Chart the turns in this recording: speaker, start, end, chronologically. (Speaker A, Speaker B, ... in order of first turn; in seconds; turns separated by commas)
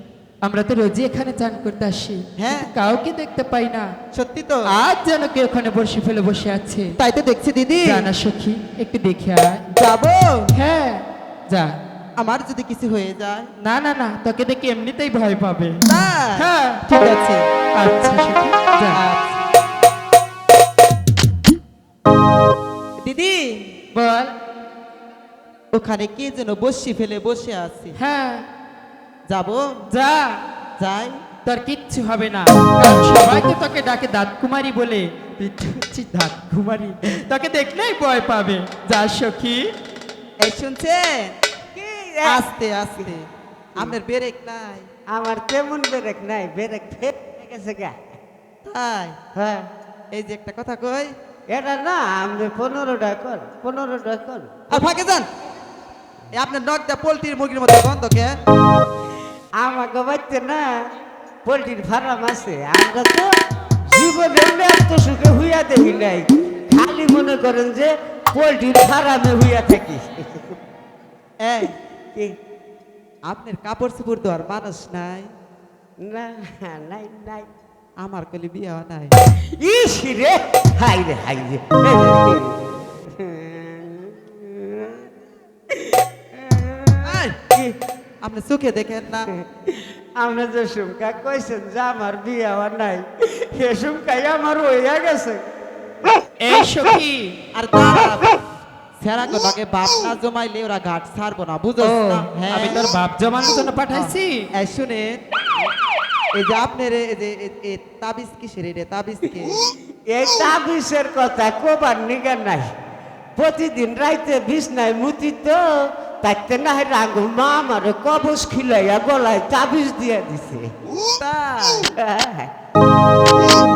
Speaker A: 0.4-3.9, Speaker B: 2.4-2.7, Speaker B: 4.1-4.7, Speaker A: 4.7-7.0, Speaker B: 7.0-8.1, Speaker A: 7.8-9.7, Speaker B: 9.8-10.5, Speaker A: 10.5-11.7, Speaker B: 12.2-13.5, Speaker A: 13.6-15.8, Speaker B: 15.9-17.4, Speaker A: 16.4-16.9, Speaker A: 17.8-19.0, Speaker B: 18.9-19.4, Speaker B: 23.0-23.8, Speaker A: 23.9-24.3, Speaker B: 25.7-28.0, Speaker A: 28.0-28.5, Speaker B: 29.3-29.7, Speaker A: 29.9-30.4, Speaker B: 30.8-31.2, Speaker A: 31.4-39.7, Speaker B: 40.4-41.4, Speaker C: 41.8-42.5, Speaker B: 42.2-44.9, Speaker C: 45.1-48.0, Speaker B: 48.6-49.2, Speaker C: 49.4-49.7, Speaker B: 50.1-51.1, Speaker C: 51.5-54.9, Speaker B: 54.7-55.3, Speaker B: 56.3-58.4, Speaker C: 59.6-60.7, Speaker C: 61.5-63.3, Speaker C: 63.9-70.6, Speaker B: 71.4-71.8, Speaker B: 73.3-75.3, Speaker C: 76.0-77.5, Speaker B: 78.0-79.2, Speaker C: 79.4-85.1, Speaker C: 85.7-87.5, Speaker B: 87.0-87.5, Speaker B: 88.2-89.3, Speaker C: 89.4-95.5, Speaker A: 96.4-97.4, Speaker B: 97.5-98.4, Speaker B: 99.0-102.8, Speaker A: 101.8-104.5, Speaker B: 103.9-105.2, Speaker B: 106.3-109.7, Speaker C: 110.1-112.7, Speaker C: 113.4-120.7, Speaker B: 121.2-121.9, Speaker C: 122.0-122.5